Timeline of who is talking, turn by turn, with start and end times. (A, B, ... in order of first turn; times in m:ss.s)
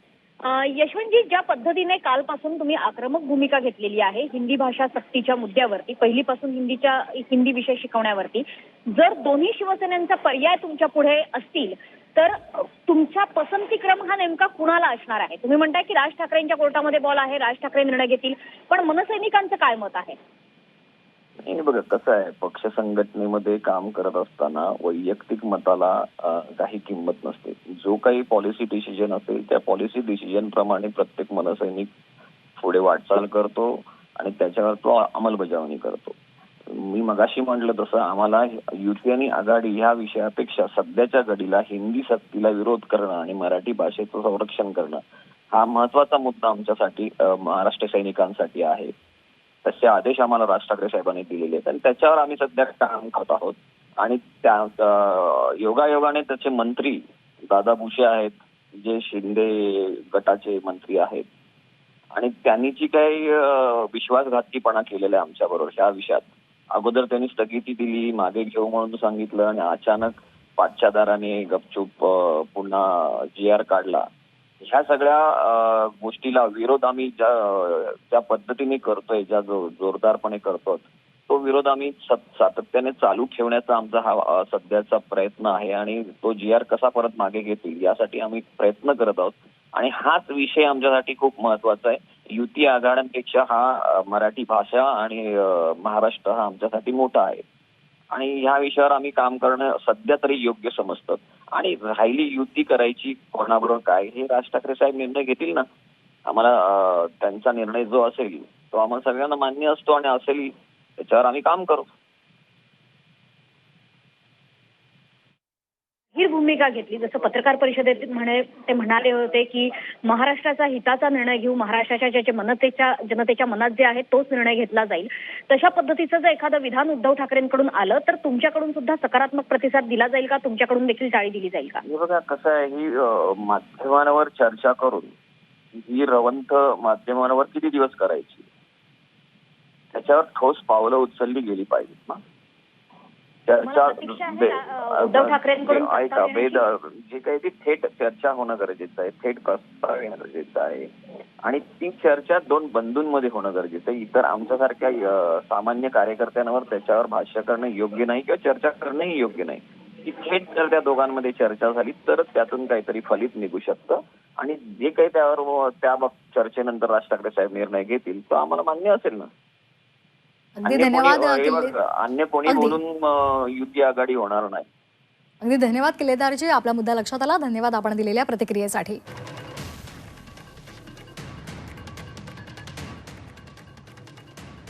0:00.4-0:20.2 A
0:21.4-0:31.9 B
0:32.6-0:36.2 B
0:36.7-0:48.9 B
0:49.6-1:01.3 B
1:02.1-1:14.1 B
1:14.6-1:37.4 B
1:38.1-1:45.7 B
1:46.3-1:51.9 B
1:56.2-2:11.8 A
2:11.8-2:15.1 B
2:15.8-2:18.5 B
2:19.9-2:22.2 B
2:23.5-2:30.9 B
2:23.6-2:26.7 A
2:31.4-2:49.3 B
2:50.6-2:51.8 C
2:50.6-2:54.7 B
2:52.5-2:52.8 C
2:55.4-2:59.0 C